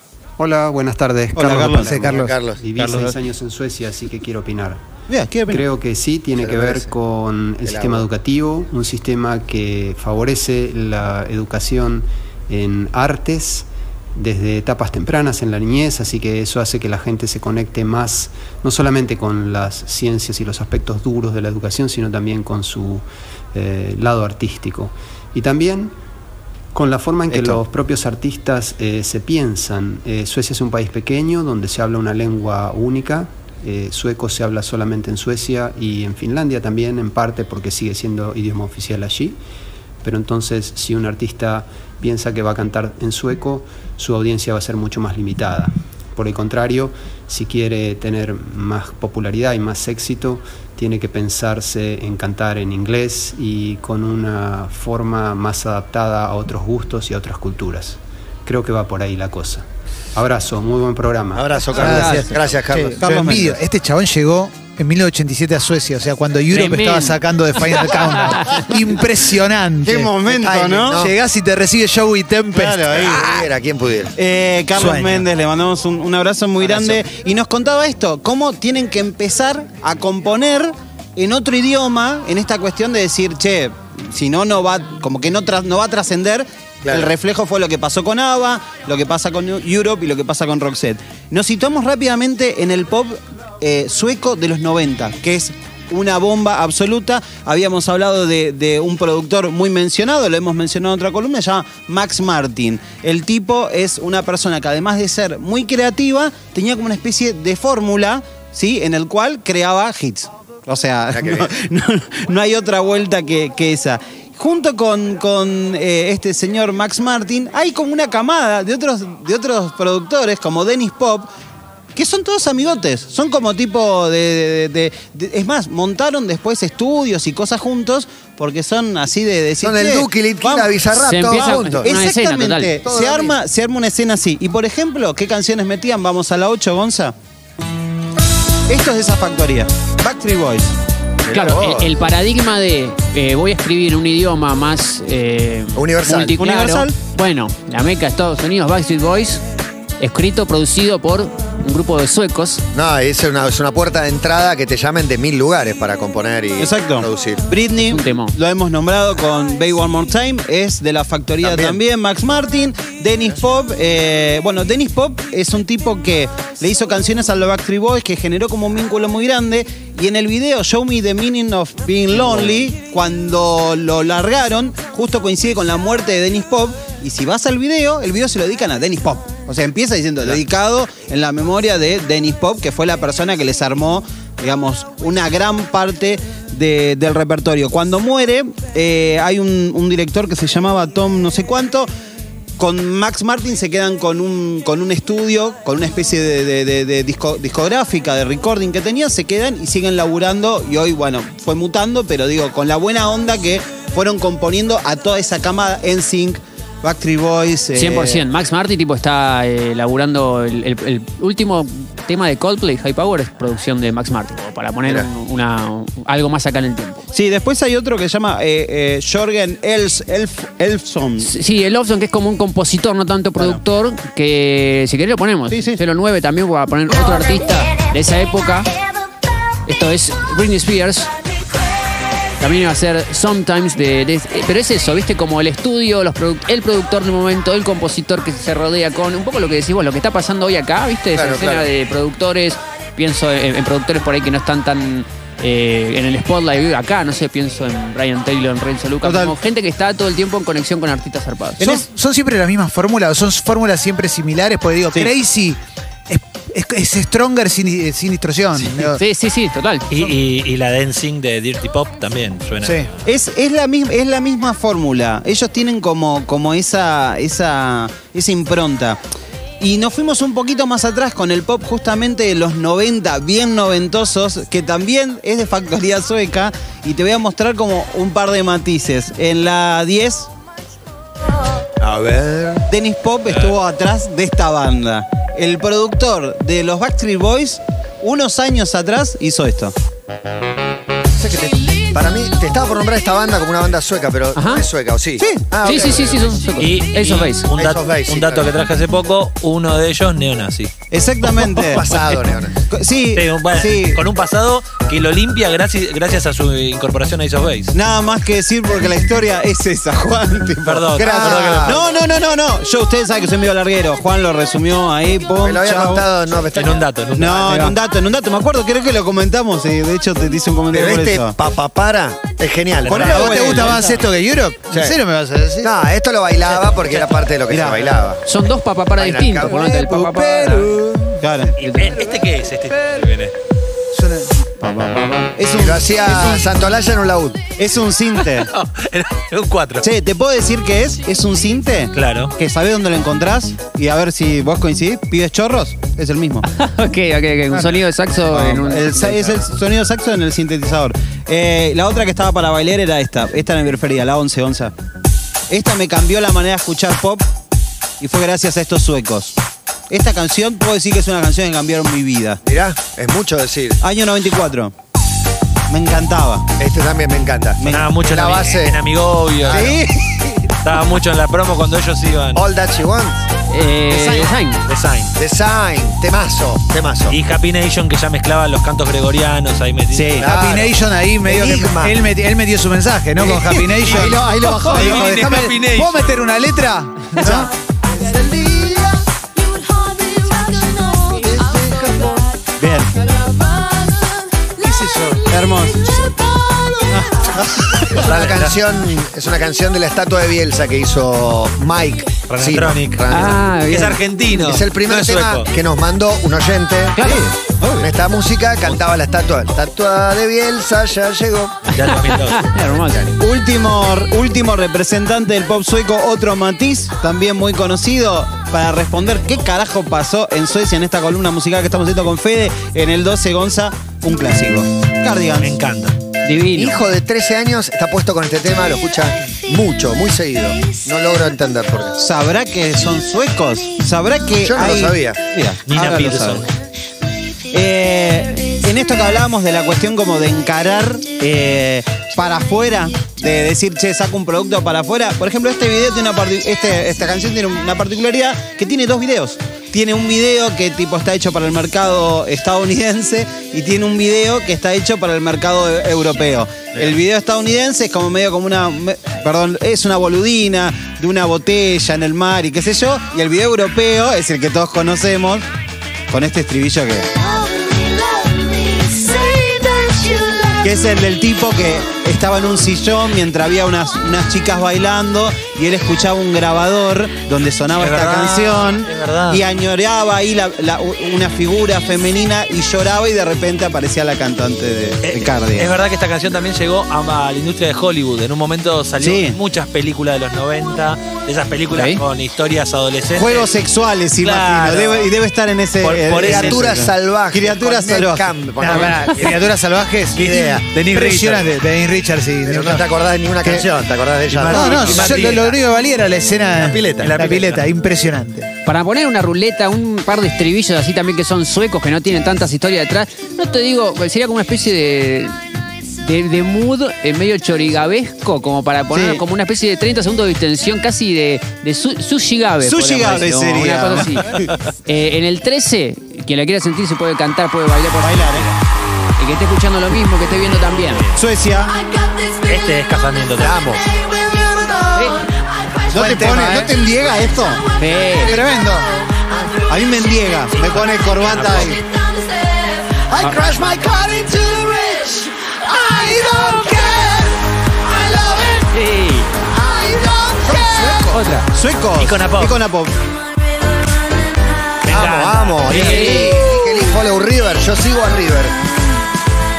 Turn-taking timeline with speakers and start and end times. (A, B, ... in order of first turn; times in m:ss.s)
0:00.4-0:04.8 A
0:01.4-0:02.0 B
0:01.8-0:02.6 C
0:02.0-0:02.3 D
0:05.1-0:05.6 B
0:05.5-0:26.0 A
0:06.4-0:07.0 C
0:07.6-0:08.1 C
0:26.7-0:39.4 A
0:27.3-0:27.6 B
0:40.0-0:59.6 A
1:00.2-1:01.6 A
1:01.3-1:03.0 C
1:01.7-1:10.1 D
1:03.0-1:03.6 B
1:06.5-1:07.2 E
1:08.4-1:08.7 E
1:09.8-1:11.1 B
1:10.3-1:11.1 C
1:11.0-1:13.0 D
1:12.5-1:13.3 B
1:12.9-1:14.2 C
1:14.2-2:01.3 B
1:14.8-1:15.2 D
1:26.8-1:27.1 C
1:51.1-1:51.5 C
2:02.0-2:10.8 B
2:09.6-2:11.9 C
2:10.9-2:12.8 E
2:11.3-2:17.2 B
2:12.8-2:13.3 C
2:18.7-2:20.7 B
2:21.2-2:21.9 C
2:21.3-2:29.4 E
2:25.8-2:26.4 C
2:26.4-2:27.0 B
2:30.0-2:32.6 E
2:32.7-2:37.5 C
2:36.6-3:11.9 B
2:37.8-2:38.4 E
2:41.4-2:41.8 C
3:12.6-3:28.2 B
3:27.7-3:37.0 E
3:37.1-3:41.3 B
3:41.2-3:48.7 E
3:45.5-3:45.8 B
3:49.7-3:51.1 E
3:52.4-4:11.8 E
4:01.1-4:01.7 C
4:09.0-4:09.4 B
4:11.6-4:19.0 D
4:18.9-4:19.9 E
4:19.9-4:22.8 F
4:22.6-4:22.9 D
4:23.0-4:29.0 B
4:29.6-4:40.3 B
4:41.8-4:42.7 C
4:42.7-4:49.7 B
4:43.3-4:43.6 F
4:51.2-4:56.3 C
4:54.4-4:54.6 E
4:55.2-4:55.4 B
4:55.6-4:57.5 E
4:56.6-5:00.7 F
4:57.6-4:58.5 C
5:00.9-5:01.8 B
5:01.4-5:02.6 C
5:02.7-5:04.0 B
5:03.2-5:07.8 F
5:07.7-5:16.0 B
5:10.6-5:11.8 F
5:11.0-5:11.8 C
5:15.4-5:16.9 C
5:16.5-5:17.7 F
5:17.2-5:21.4 B
5:20.7-5:23.6 C
5:22.9-5:24.0 B
5:22.9-5:25.7 D
5:24.7-5:25.0 C
5:25.6-5:28.2 C
5:26.6-5:27.2 F
5:27.5-5:27.9 B
5:28.2-5:30.7 E
5:29.0-5:29.7 C
5:29.5-5:31.3 D
5:31.2-5:31.6 B
5:31.6-5:33.3 F
5:31.6-5:31.9 E
5:33.9-5:34.3 D
5:34.6-5:36.5 B
5:35.5-5:37.5 C
5:37.6-5:38.5 B
5:38.4-5:39.9 F
5:39.8-5:46.5 B
5:41.9-5:42.3 F
5:46.5-5:49.4 E
5:48.3-5:54.7 B
5:55.5-5:57.2 B
5:58.0-5:59.4 B
5:59.9-6:02.4 B
6:02.4-6:03.8 C
6:03.8-6:04.7 B
6:05.7-6:06.5 B
6:06.6-6:08.8 C
6:07.6-6:07.9 B
6:07.7-6:09.8 F
6:09.4-6:09.8 C
6:09.5-6:10.5 B
6:10.6-6:12.4 F
6:12.4-6:13.2 C
6:13.5-6:14.6 E
6:13.9-6:14.3 B
6:14.7-6:15.2 F
6:15.2-6:17.2 C
6:17.1-6:20.2 F
6:19.9-6:20.3 B
6:20.2-6:22.0 C
6:20.2-6:27.5 D
6:23.6-6:25.1 C
6:23.7-6:26.0 F
6:24.7-6:25.0 B
6:27.2-6:27.5 B
6:28.0-6:29.0 C
6:30.4-6:32.1 C
6:32.6-6:32.9 B
6:34.6-6:35.3 D
6:35.3-6:36.1 B
6:36.9-6:37.8 B
6:37.9-6:43.5 C
6:38.0-6:38.6 F
6:42.3-6:45.5 F
6:43.1-6:44.0 E
6:44.3-6:47.0 C
6:47.0-6:47.9 B
6:47.8-6:51.8 C
6:51.7-6:52.5 F
6:51.8-6:53.1 E
6:53.2-7:05.6 B
7:05.4-7:06.0 F
7:06.2-7:06.8 E
7:06.6-7:12.0 C
7:12.0-7:16.5 B
7:14.4-7:15.2 C
7:15.7-7:16.5 F
7:17.5-7:45.5 B
7:46.1-7:47.1 B
7:50.6-8:05.7 B
7:57.8-7:59.4 F
8:05.0-8:13.5 F
8:09.0-8:09.4 B
8:11.7-8:12.0 E
8:13.2-8:18.3 B
8:14.2-8:15.1 F
8:15.8-8:16.7 F
8:16.2-8:19.4 C
8:18.6-8:22.8 D
8:20.2-8:21.0 C
8:20.2-8:21.4 F
8:22.4-8:25.6 C
8:24.3-8:25.6 F
8:24.4-8:28.5 D
8:26.6-8:27.2 C
8:27.0-8:27.6 F
8:28.7-8:35.4 E
8:36.0-8:44.3 E
8:38.9-8:39.2 B
8:42.6-8:44.5 B
8:44.8-8:48.5 E
8:48.0-8:48.5 B
8:49.2-8:51.1 E
8:51.2-8:51.8 B
8:52.4-8:53.6 F
8:53.4-8:55.0 C
8:55.9-8:57.7 B
8:56.0-8:56.7 D
8:57.8-8:58.4 E
8:58.1-8:59.0 D
8:59.7-9:01.8 B
9:01.2-9:01.8 F
9:03.1-9:05.1 D
9:05.7-9:07.3 D
9:07.9-9:08.5 C
9:08.1-9:08.5 D
9:08.7-9:09.3 E
9:09.6-9:11.2 C
9:09.6-9:11.3 D
9:11.1-9:11.4 E
9:11.5-9:13.0 B
9:12.0-9:12.6 F
9:14.8-9:16.3 F
9:14.9-9:18.6 C
9:15.7-9:16.3 E